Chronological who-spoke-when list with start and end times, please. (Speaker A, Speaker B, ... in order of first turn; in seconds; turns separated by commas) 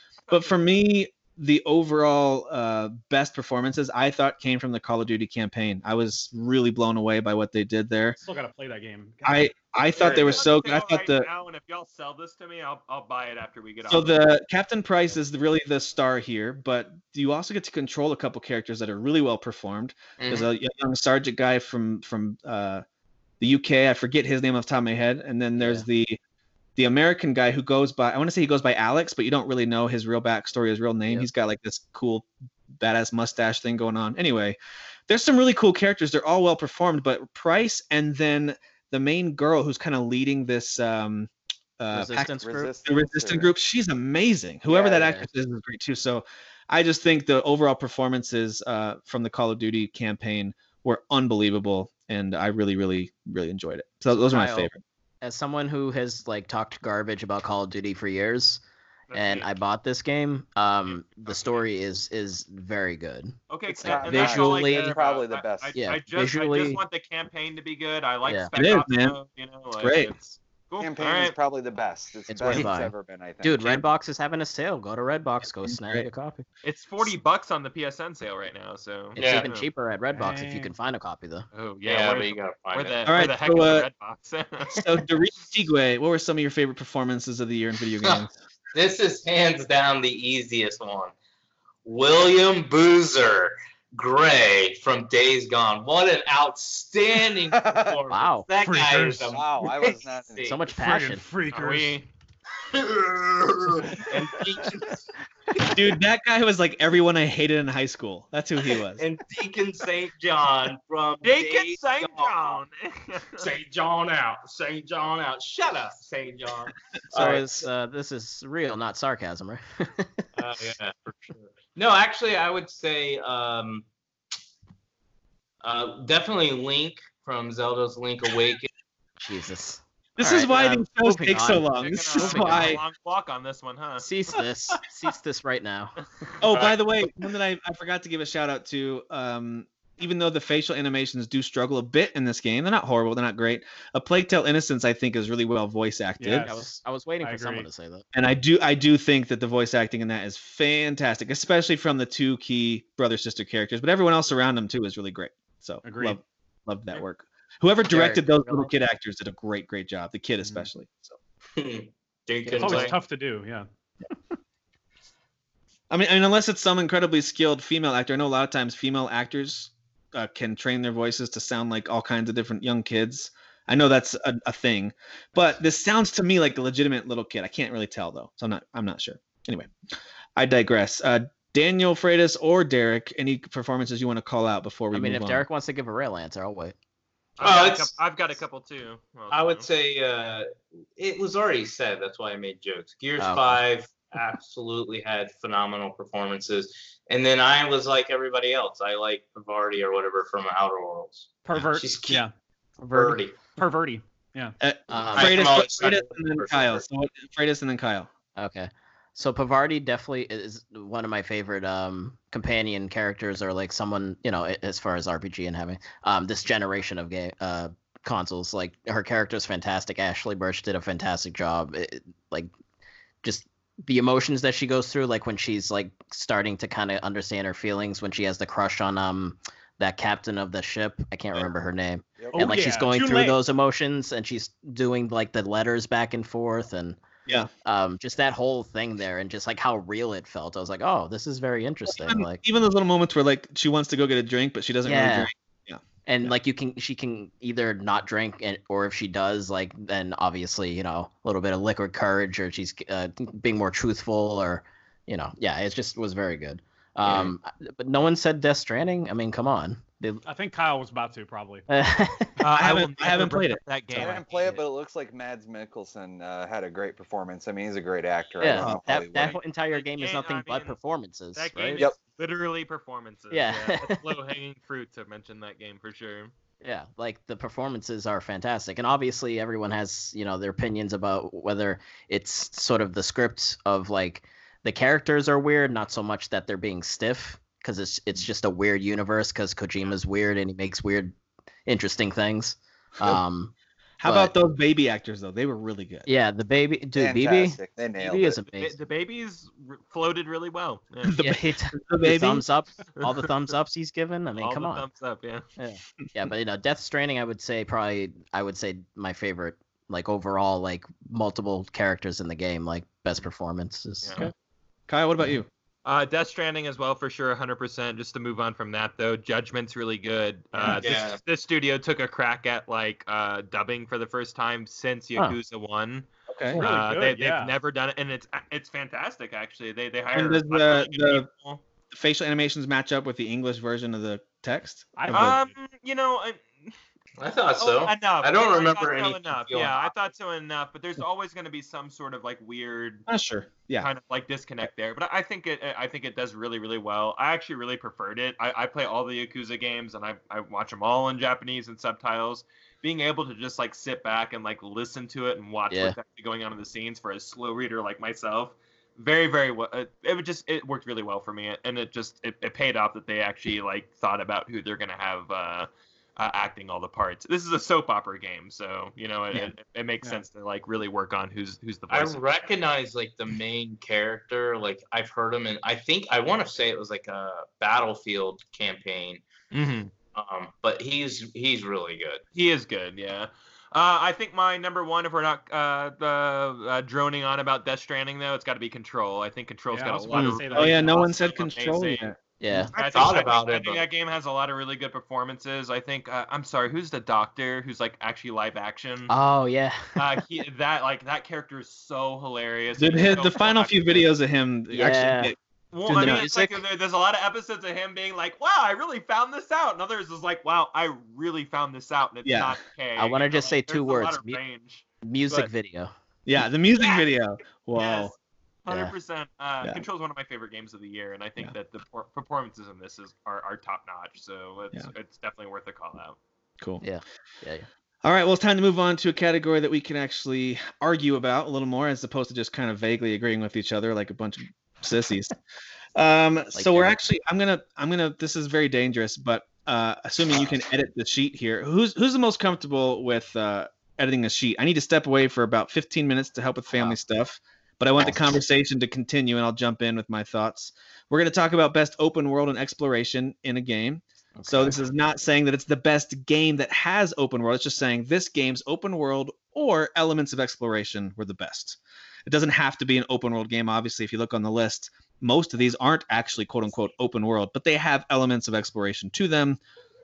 Speaker A: 0.2-0.6, Speaker B: 0.3-8.2, Speaker C: 8.2-9.5, Speaker B: 9.2-11.3, Speaker A: 9.9-14.2, Speaker D: 10.0-10.4, Speaker B: 13.8-22.8, Speaker D: 20.2-20.5, Speaker B: 23.4-26.2, Speaker E: 25.6-25.9, Speaker B: 26.8-34.6, Speaker B: 35.1-42.3, Speaker E: 41.9-42.7, Speaker F: 42.4-43.5, Speaker B: 42.8-54.8, Speaker E: 44.7-45.3, Speaker E: 54.1-58.6, Speaker A: 59.1-59.5, Speaker E: 59.1-64.9, Speaker A: 60.9-61.6, Speaker A: 63.5-71.3, Speaker F: 63.7-65.8, Speaker E: 65.7-66.8, Speaker B: 68.5-69.2, Speaker B: 69.8-70.1, Speaker F: 70.8-73.9, Speaker E: 72.3-76.4, Speaker B: 75.6-76.1, Speaker A: 76.6-79.7, Speaker D: 79.2-79.5, Speaker E: 79.2-81.5, Speaker C: 80.1-80.7, Speaker A: 81.5-84.8, Speaker D: 81.8-83.0, Speaker B: 83.1-83.9, Speaker B: 84.7-88.3, Speaker D: 88.7-91.1, Speaker D: 91.8-100.6, Speaker F: 97.5-98.0, Speaker E: 98.1-98.5, Speaker C: 98.5-99.4, Speaker F: 99.3-100.5, Speaker E: 100.4-101.2, Speaker C: 100.7-102.0, Speaker A: 101.5-102.1, Speaker D: 102.7-105.0, Speaker D: 105.5-105.8, Speaker B: 105.7-109.0, Speaker D: 109.0-112.6, Speaker A: 111.2-113.5, Speaker D: 113.4-117.7, Speaker E: 117.1-120.2, Speaker D: 120.3-123.8, Speaker D: 125.6-128.7, Speaker E: 129.2-132.8, Speaker B: 130.2-132.8, Speaker A: 131.8-134.3, Speaker E: 134.0-135.9, Speaker B: 136.4-146.5, Speaker C: 146.2-146.7, Speaker E: 146.3-148.0, Speaker C: 147.2-147.7, Speaker B: 148.1-161.2, Speaker C: 155.8-156.2, Speaker E: 157.9-158.7, Speaker D: 161.6-163.0, Speaker E: 162.4-162.9, Speaker C: 162.6-163.7, Speaker B: 165.9-179.7, Speaker B: 180.3-185.4, Speaker E: 184.9-186.7, Speaker A: 187.4-189.7, Speaker D: 187.4-187.9, Speaker D: 189.3-202.2, Speaker E: 193.2-193.6, Speaker C: 201.4-204.6, Speaker D: 202.9-203.5, Speaker B: 204.6-208.1, Speaker E: 204.9-205.4, Speaker D: 205.1-206.8, Speaker E: 208.3-222.5, Speaker E: 223.2-237.0, Speaker C: 232.3-233.4, Speaker E: 237.6-242.4, Speaker B: 241.9-246.3, Speaker E: 244.8-245.3, Speaker E: 246.1-260.2, Speaker C: 260.2-261.6, Speaker E: 261.7-262.4, Speaker A: 262.4-264.6, Speaker B: 262.5-263.6, Speaker F: 263.9-269.4, Speaker E: 268.4-271.9, Speaker B: 268.5-268.8, Speaker A: 269.2-270.8, Speaker A: 271.3-276.3, Speaker E: 273.3-274.0, Speaker E: 276.6-291.1, Speaker E: 291.6-293.5, Speaker B: 294.0-296.1, Speaker E: 294.0-294.3, Speaker E: 296.1-298.7, Speaker F: 296.9-298.4, Speaker A: 298.5-301.2, Speaker B: 301.0-302.4, Speaker E: 301.2-304.9, Speaker A: 303.0-303.3, Speaker A: 304.4-305.4, Speaker E: 305.6-314.3, Speaker A: 314.0-314.3, Speaker B: 314.9-315.5, Speaker A: 315.8-331.6, Speaker D: 320.7-321.2, Speaker B: 326.3-326.6, Speaker C: 326.6-327.5, Speaker B: 330.1-331.3, Speaker B: 331.9-335.4, Speaker C: 334.9-335.5, Speaker A: 335.1-336.7, Speaker D: 337.2-339.9, Speaker A: 337.6-343.1, Speaker B: 343.1-343.9, Speaker A: 343.8-372.2, Speaker E: 355.7-356.0, Speaker D: 371.9-379.2, Speaker A: 379.5-379.9, Speaker D: 380.1-382.2, Speaker A: 382.3-392.1, Speaker C: 389.7-391.1, Speaker E: 390.1-390.4, Speaker B: 390.5-392.7, Speaker E: 392.4-392.7, Speaker A: 392.7-399.1, Speaker D: 392.8-393.8, Speaker E: 399.1-400.2, Speaker A: 399.9-404.1, Speaker B: 402.8-406.2, Speaker E: 404.7-405.3, Speaker A: 405.7-415.5, Speaker E: 405.9-406.6, Speaker B: 412.2-412.6, Speaker E: 413.0-414.4, Speaker E: 415.0-415.9, Speaker B: 416.2-418.1, Speaker A: 417.7-418.1, Speaker A: 418.6-426.2, Speaker E: 418.7-418.9, Speaker E: 426.8-427.7, Speaker B: 428.0-435.3, Speaker B: 435.9-469.6, Speaker E: 436.5-437.0, Speaker E: 446.7-447.0, Speaker E: 448.0-448.3, Speaker E: 454.4-454.8